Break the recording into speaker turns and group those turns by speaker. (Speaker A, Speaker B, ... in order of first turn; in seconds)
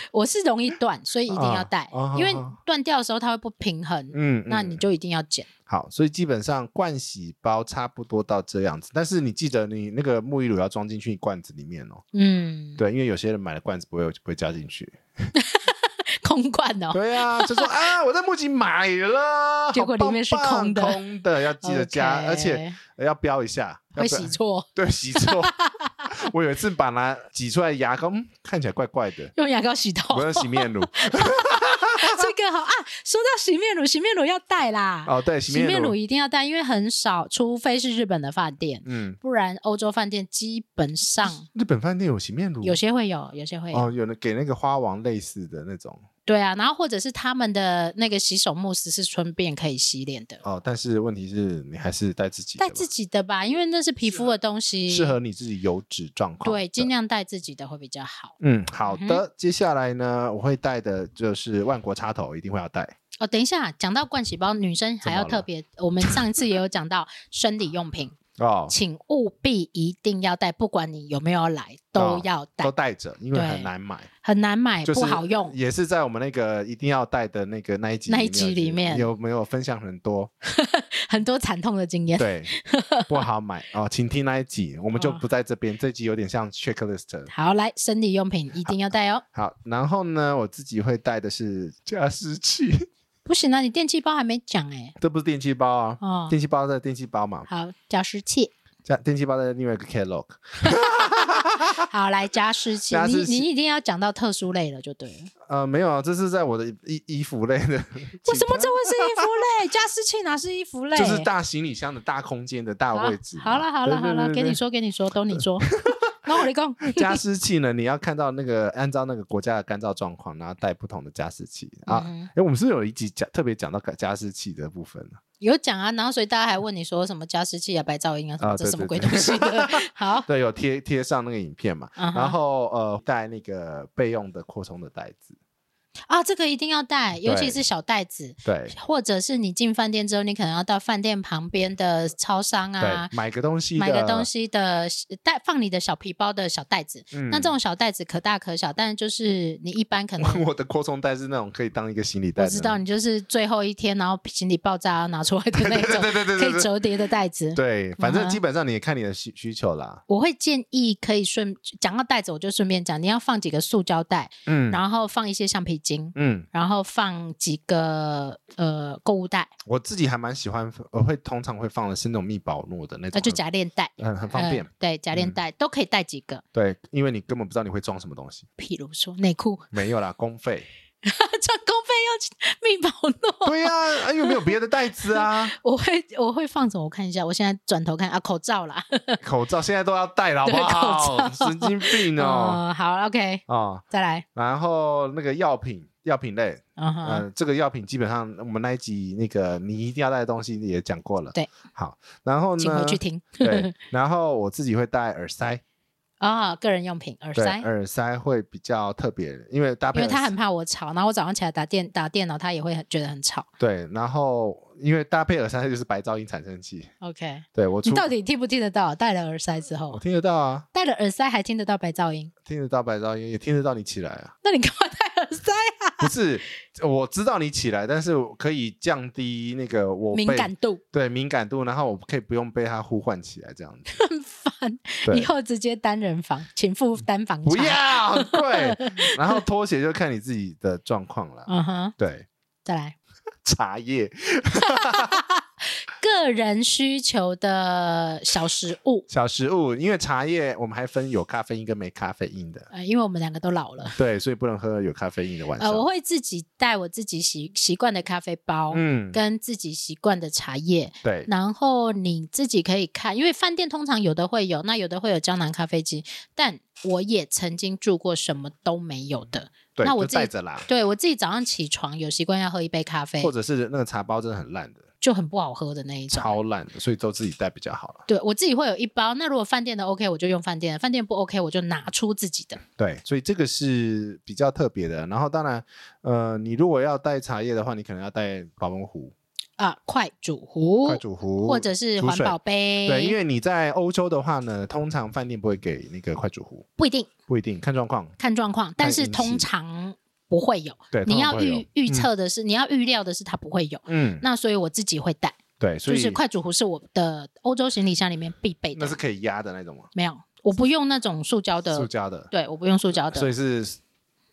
Speaker A: 0.1-5.5, 12.1-12.8, 15.4-17.7, 19.7-21.0, 21.6-22.8, 24.0-26.1, 29.4-41.5, 42.6-43.9, 46.3-50.4, 52.6-55.1, 56.4-58.4, 58.9-59.2, 63.2-68.2, 68.7-72.7, 73.3-73.7, 74.2-75.6, 78.1-79.1, 80.5-83.2, 85.0-85.2, 87.3-89.2, 93.3-95.0, 96.0-96.3, 97.5-98.5, 100.6-100.9, 101.8-105.3, 108.2-111.3, 112.9-117.2, 121.9-122.3, 125.4-130.3, 132.0-132.4, 136.1-143.1, 143.8-150.4, 152.4-158.4, 160.1-169.5, 173.1-176.4, 178.6-179.7, 181.0-184.5, 185.1-189.2, 190.5-194.2, 196.8-197.3, 202.6-203.8, 206.2-207.7, 209.9-213.5, 217.0-220.0, 220.7-222.3, 224.4-226.1, 230.1-230.8, 233.9-239.4, 241.5-241.9, 242.7-243.0, 244.6-249.1, 252.7-254.0, 255.6-273.3, 275.0-276.4, 278.1-282.6, 289.6-293.2, 296.8-297.1, 298.2-309.0, 309.9-313.3
Speaker B: 1.3-2.6, 4.1-4.8, 5.7-12.0, 12.8-15.3, 16.9-25.6, 26.1-29.3, 30.1-32.3, 35.1-36.0, 38.9-39.2, 41.2-42.8, 43.7-46.0, 50.4-52.9, 54.9-56.9, 58.4-62.9, 65.0-65.5, 68.4-68.8, 72.0-74.1, 74.8-80.3, 82.2-82.5, 83.1-87.3, 89.3-92.9, 95.0-97.5, 98.8-101.9, 102.9-103.5, 105.5-109.3, 111.0-114.6, 115.3-116.0, 116.9-125.2, 128.4-135.4, 137.2-137.6, 138.4-138.8, 142.8-144.3, 147.1-147.5, 150.2-152.8, 155.5-156.7, 157.6-160.0, 164.5-164.8, 166.2-166.5, 169.7-173.4, 174.0-175.4, 176.5-178.5, 179.7-180.7, 183.4-185.6, 189.2-192.6, 193.5-193.8, 194.3-205.6, 207.4-210.3, 213.6-216.9, 217.6-218.1, 219.9-220.7, 222.5-224.3, 226.0-233.9, 237.4-242.3, 243.4-245.2, 249.1-252.7, 253.9-255.9, 258.7-259.2, 261.0-261.3, 269.8-270.7, 273.2-274.8, 276.1-278.1, 282.8-289.1, 290.9-296.7, 297.3-298.1, 298.8-299.5, 300.9-302.1, 303.9-304.2, 305.6-306.2, 308.8-309.9, 311.7-312.3, 313.0-313.8